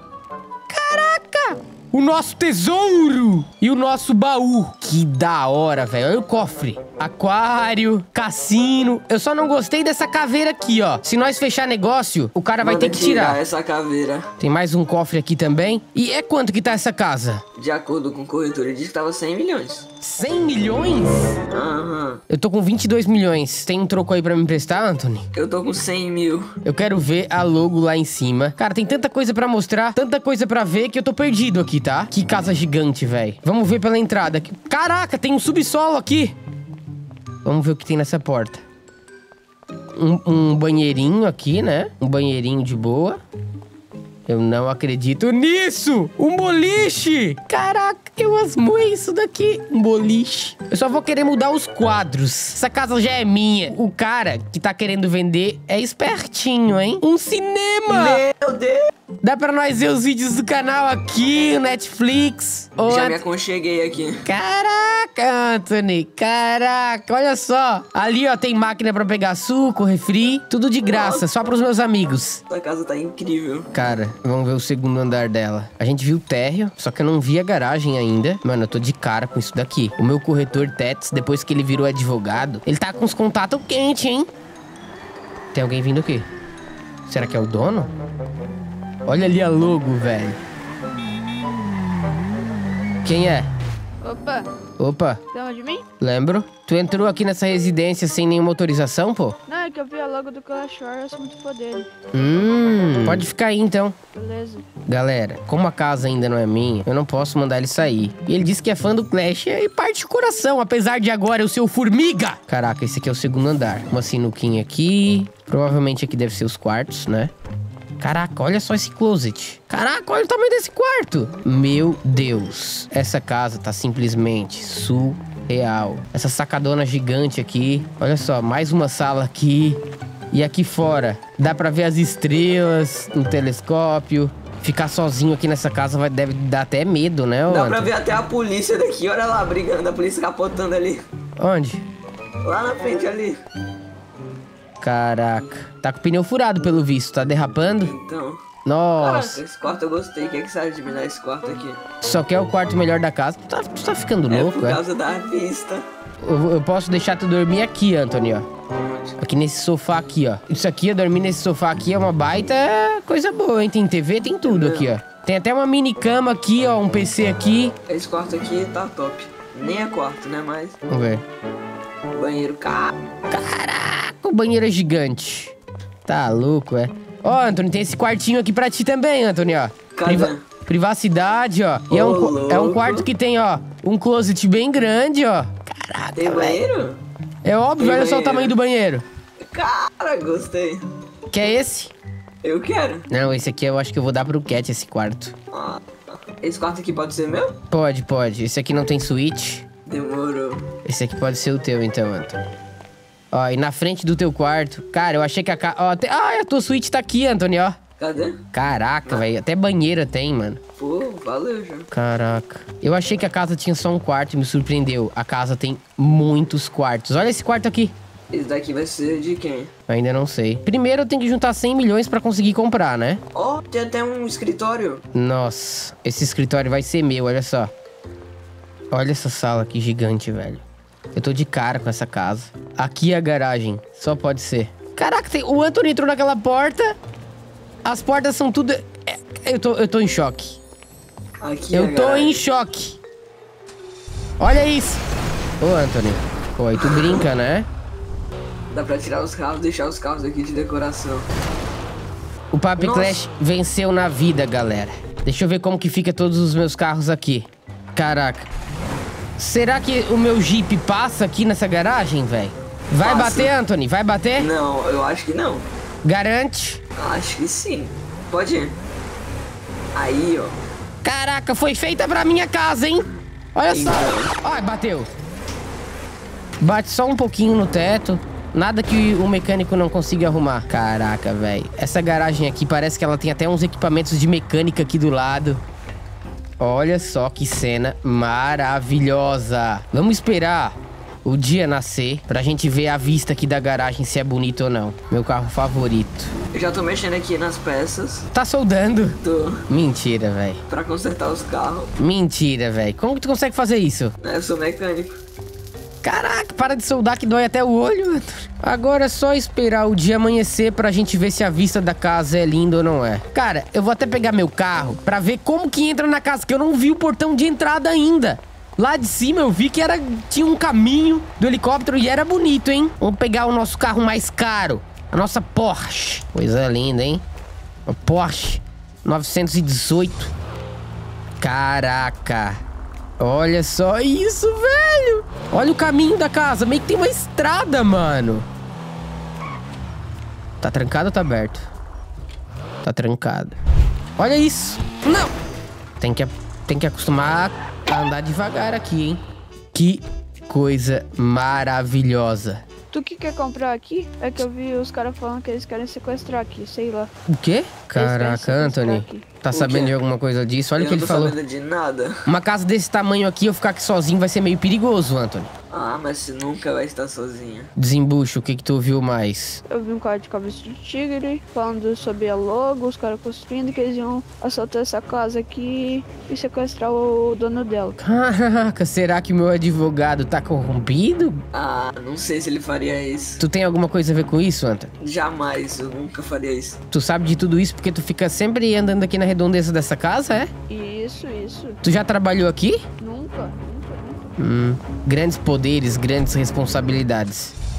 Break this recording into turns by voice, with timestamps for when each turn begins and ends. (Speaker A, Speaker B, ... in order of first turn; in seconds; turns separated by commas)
Speaker A: 0.7-13.4, Speaker B: 12.6-14.3, Speaker A: 14.4-17.4, Speaker B: 17.6-19.9, Speaker A: 20.0-21.4, Speaker B: 21.5-22.2, Speaker A: 22.3-25.2, Speaker B: 25.3-26.5, Speaker A: 26.6-36.3, Speaker A: 37.4-38.6, Speaker A: 39.9-43.2, Speaker A: 44.3-58.2, Speaker B: 57.9-58.9, Speaker A: 59.2-63.2, Speaker B: 62.9-64.2, Speaker A: 64.2-72.4, Speaker B: 70.9-71.2, Speaker B: 72.5-73.7, Speaker A: 73.7-84.3, Speaker A: 85.5-86.3, Speaker A: 87.1-87.9, Speaker A: 89.1-90.4, Speaker A: 93.0-93.5, Speaker C: 94.0-94.5, Speaker A: 94.8-95.2, Speaker C: 95.3-95.8, Speaker A: 96.0-99.4, Speaker C: 99.5-101.9, Speaker A: 102.1-104.0, Speaker C: 104.1-104.7, Speaker A: 104.9-117.3, Speaker A: 118.0-137.9, Speaker B: 137.5-141.0, Speaker A: 141.4-141.8, Speaker B: 142.4-143.4, Speaker A: 144.8-147.9, Speaker B: 147.8-148.4, Speaker A: 148.6-149.4, Speaker B: 149.0-151.8, Speaker A: 152.0-154.8, Speaker B: 154.3-155.8, Speaker A: 156.2-158.5, Speaker B: 158.7-159.2, Speaker A: 159.2-167.7, Speaker B: 164.4-164.9, Speaker B: 167.9-170.8, Speaker A: 170.9-171.2, Speaker B: 172.1-172.9, Speaker A: 173.3-175.5, Speaker A: 176.1-186.6, Speaker B: 179.9-180.4, Speaker B: 181.9-183.1, Speaker B: 186.2-187.0, Speaker A: 187.4-189.0, Speaker B: 187.8-188.5, Speaker B: 189.4-190.8, Speaker A: 191.3-191.9, Speaker B: 192.4-193.1, Speaker A: 193.1-195.3, Speaker B: 195.5-197.6, Speaker A: 197.7-199.6, Speaker B: 199.8-200.7, Speaker A: 200.8-202.4, Speaker A: 203.3-207.8, Speaker B: 208.0-208.4, Speaker A: 208.5-210.6, Speaker B: 210.8-211.9, Speaker A: 211.9-217.9, Speaker B: 218.3-219.7, Speaker A: 219.9-223.2, Speaker B: 223.3-225.0, Speaker A: 225.1-227.7, Speaker A: 228.9-230.6, Speaker A: 231.1-236.9, Speaker A: 237.8-240.6, Speaker B: 241.4-242.4, Speaker A: 241.7-243.0, Speaker A: 244.4-245.0, Speaker A: 245.6-247.7, Speaker B: 246.8-247.2, Speaker B: 248.7-251.3, Speaker A: 252.5-258.5, Speaker B: 252.8-253.2, Speaker A: 259.4-264.5, Speaker B: 263.0-263.5, Speaker B: 264.4-265.7, Speaker A: 266.0-266.8, Speaker B: 267.0-268.8, Speaker B: 269.9-270.6, Speaker A: 271.0-275.1, Speaker B: 273.7-274.3, Speaker A: 276.6-285.6, Speaker A: 286.6-296.3, Speaker B: 296.5-298.3, Speaker A: 298.3-300.6, Speaker B: 299.2-299.6, Speaker B: 300.7-301.9, Speaker A: 302.0-304.1, Speaker B: 304.2-305.1, Speaker A: 306.0-327.2, Speaker A: 327.9-330.3, Speaker A: 331.4-332.6, Speaker A: 333.2-338.4, Speaker A: 340.6-341.7, Speaker A: 342.8-343.6, Speaker A: 344.2-345.3, Speaker A: 346.0-349.2, Speaker A: 349.7-352.6, Speaker C: 352.9-357.1, Speaker A: 357.3-361.4, Speaker C: 357.9-359.4, Speaker B: 359.5-359.9, Speaker B: 360.8-362.2, Speaker A: 362.2-365.5, Speaker B: 365.7-367.7, Speaker A: 367.8-369.6, Speaker C: 369.7-378.0, Speaker A: 378.0-381.4, Speaker B: 381.5-383.4, Speaker A: 383.4-384.9, Speaker B: 385.0-386.8, Speaker A: 386.9-390.5, Speaker C: 390.7-391.8, Speaker A: 391.8-392.8, Speaker C: 393.0-394.3, Speaker A: 394.4-397.6